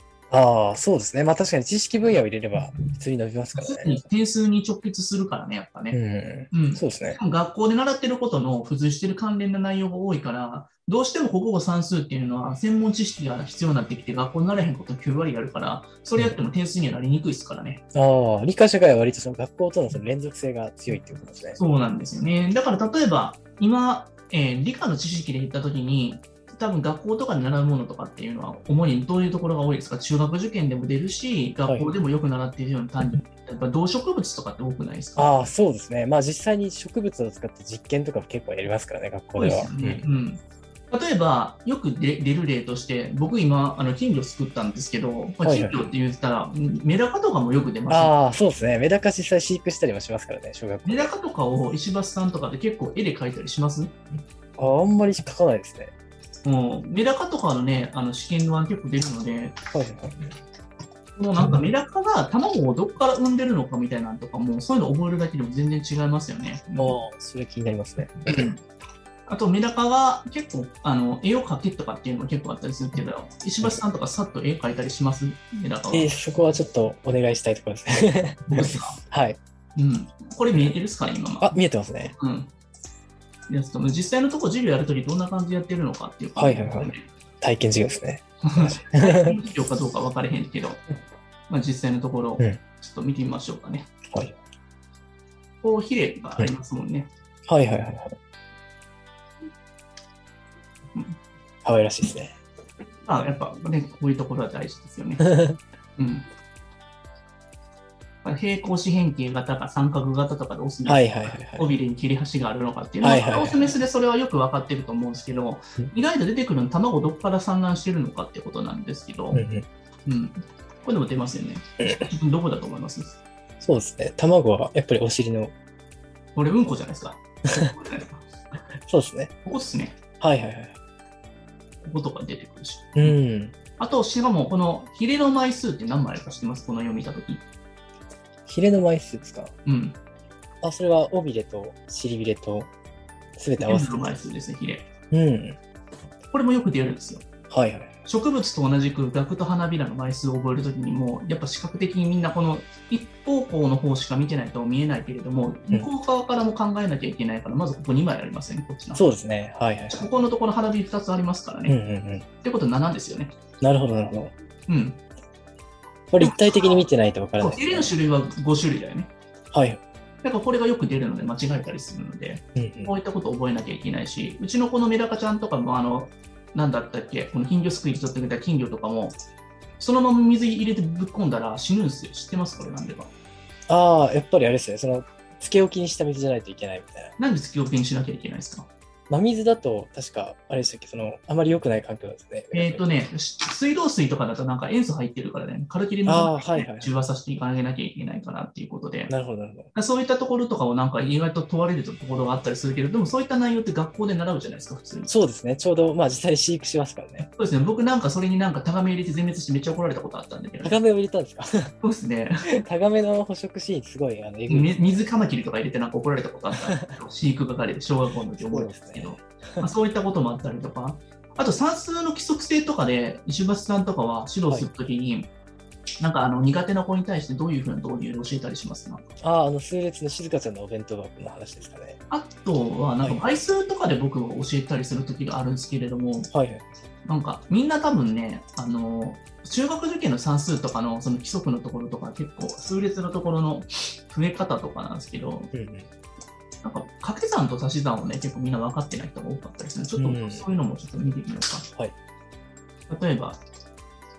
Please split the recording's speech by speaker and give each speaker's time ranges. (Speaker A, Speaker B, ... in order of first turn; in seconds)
Speaker A: 0.3-4.1, 5.9-7.2, 17.9-21.6, 35.2-40.0, 45.4-45.9, 47.9-51.1, 54.6-55.9, 59.7-60.3, 66.8-68.5, 75.9-79.4, 81.4-82.1, 86.4-89.3, 97.5-98.1, 101.6-102.3, 105.2-105.6, 110.8-111.7, 113.0-113.7, 119.3-119.7, 121.8-122.1, 123.6-125.5, 128.9-129.3, 130.2-130.8, 133.0-133.5, 138.4-139.5, 140.6-142.7, 143.4-144.2, 145.1-145.6, 147.5-147.9, 158.9-160.1, 161.7-162.2, 163.6-164.3, 166.1-167.9, 169.5-169.8, 172.5-172.9, 183.7-187.2, 189.1-192.8, 196.1-196.9, 199.1-199.7, 205.1-207.3, 210.6-211.7, 212.5-215.0, 218.4-219.7, 229.2-232.0, 236.3-236.7, 245.5-245.9, 250.0-250.5
Speaker B: 3.5-6.0, 6.5-17.8, 21.6-35.3, 39.4-48.1, 50.8-53.9, 56.4-59.6, 61.1-67.0, 69.3-76.1, 78.5-79.0, 79.8-81.6, 82.1-82.5, 83.5-87.1, 88.4-90.8, 91.5-93.9, 95.6-97.1, 103.0-105.2, 106.0-106.2, 108.2-119.4, 120.0-123.2, 126.3-128.2, 129.4-130.0, 131.8-133.2, 133.8-137.4, 139.7-140.0, 143.6-144.9, 146.3-147.2, 148.1-159.0, 159.9-161.8, 162.4-163.3, 164.7-165.0, 166.2-166.8, 167.4-169.1, 170.2-179.2, 179.8-183.1, 187.2-188.7, 192.5-199.1, 199.7-205.1, 207.3-210.8, 211.8-212.6, 214.5-225.3, 226.0-229.0, 232.1-236.3, 237.1-245.5, 246.6-251.7, 252.9-253.4